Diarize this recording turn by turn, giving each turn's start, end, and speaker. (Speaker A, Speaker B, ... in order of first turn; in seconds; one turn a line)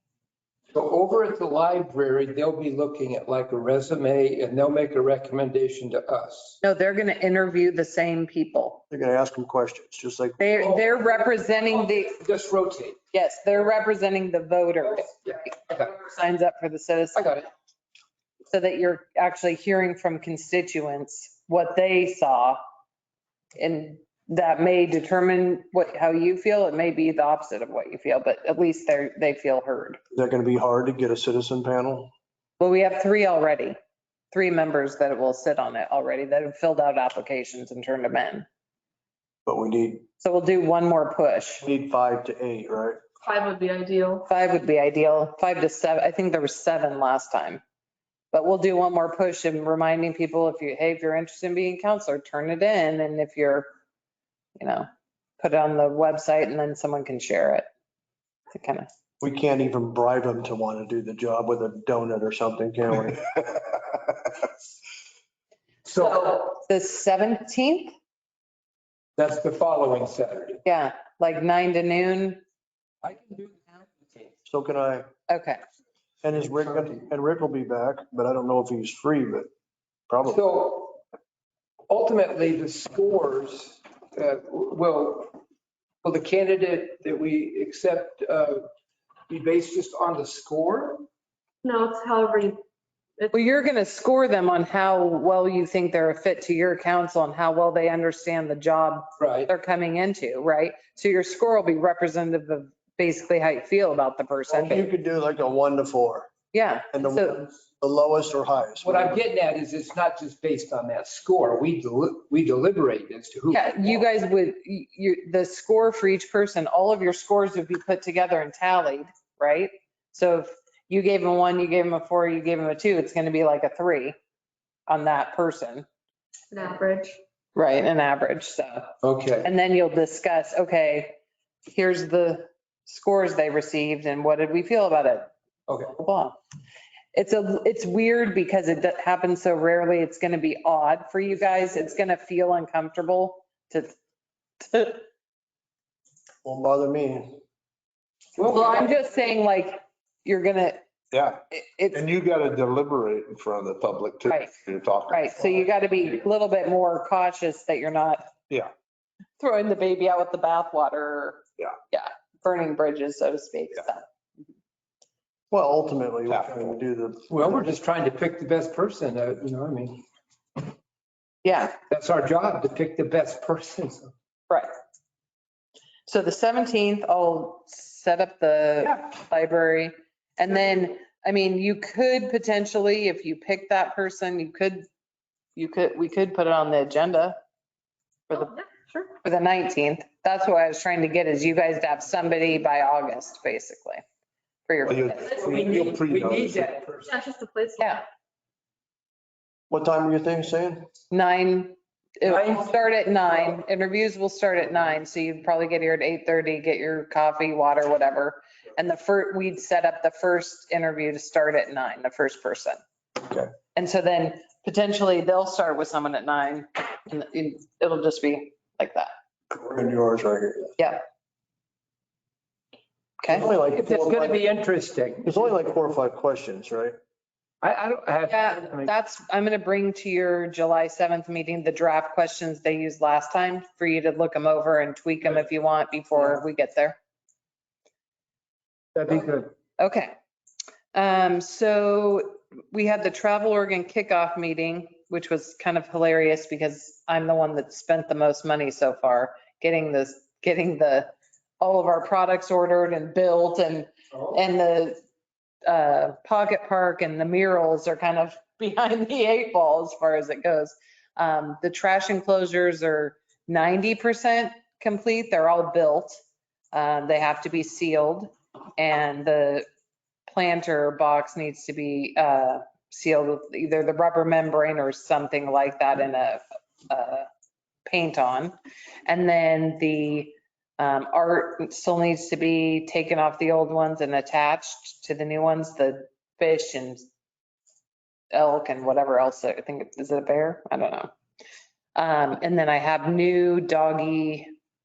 Speaker A: 0.7-6.6
Speaker B: 6.6-8.8
Speaker C: 8.9-10.4
Speaker B: 10.4-12.2
Speaker A: 10.6-13.0
Speaker B: 13.1-17.4
Speaker A: 15.2-15.8
Speaker A: 17.1-17.4
Speaker B: 18.5-22.6
Speaker B: 23.5-30.0
Speaker C: 30.1-32.1
Speaker B: 32.6-33.8
Speaker B: 34.3-38.4
Speaker C: 39.5-40.0
Speaker B: 40.2-41.6
Speaker C: 41.6-43.0
Speaker D: 43.2-44.3
Speaker B: 44.3-47.6
Speaker B: 48.3-53.7
Speaker B: 54.6-54.9
Speaker B: 55.4-57.6
Speaker B: 58.5-58.9
Speaker C: 59.2-63.4
Speaker A: 65.8-66.5
Speaker B: 66.1-67.9
Speaker A: 69.2-70.6
Speaker B: 70.6-72.4
Speaker A: 73.0-74.3
Speaker C: 74.5-75.1
Speaker B: 75.3-75.6
Speaker C: 76.2-79.5
Speaker C: 80.1-80.4
Speaker A: 80.2-81.0
Speaker A: 81.9-85.4
Speaker A: 86.0-88.7
Speaker A: 89.3-91.1
Speaker D: 91.6-92.6
Speaker B: 93.3-104.8
Speaker A: 99.2-99.5
Speaker C: 104.5-106.3
Speaker B: 106.5-107.4
Speaker C: 106.9-109.2
Speaker A: 108.8-114.0
Speaker B: 113.5-124.1
Speaker B: 124.9-125.8
Speaker D: 126.5-127.2
Speaker B: 127.5-136.4
Speaker A: 129.0-129.5
Speaker B: 137.1-143.9
Speaker B: 144.6-145.1
Speaker C: 146.4-147.4
Speaker A: 148.4-148.7
Speaker B: 148.4-150.8
Speaker E: 151.1-151.4
Speaker B: 151.5-152.0
Speaker E: 151.9-155.4
Speaker B: 154.2-154.5
Speaker B: 155.1-158.3
Speaker B: 159.4-164.0
Speaker C: 165.5-167.6
Speaker A: 167.3-170.0
Speaker B: 171.4-171.8
Speaker A: 171.9-174.1
Speaker B: 176.1-184.8
Speaker B: 185.6-187.4
Speaker D: 188.3-189.1
Speaker B: 189.2-194.0
Speaker B: 194.7-195.5
Speaker E: 194.9-196.7
Speaker A: 195.2-197.1
Speaker D: 197.0-197.9
Speaker C: 199.7-200.9
Speaker B: 201.1-212.8
Speaker A: 202.2-202.7
Speaker C: 213.2-213.5
Speaker B: 213.7-219.1
Speaker C: 219.5-220.7
Speaker B: 220.8-221.0
Speaker B: 223.2-223.4
Speaker C: 223.3-224.4
Speaker A: 223.6-225.4
Speaker C: 225.2-226.9
Speaker A: 227.6-228.9
Speaker B: 228.3-237.0
Speaker A: 238.9-239.5
Speaker B: 239.8-240.1
Speaker B: 240.9-255.0
Speaker A: 254.1-254.4
Speaker B: 255.6-266.2
Speaker B: 266.7-269.6
Speaker B: 270.3-277.3
Speaker B: 277.9-278.5
Speaker B: 279.1-287.0
Speaker B: 288.3-291.1
Speaker B: 291.9-294.5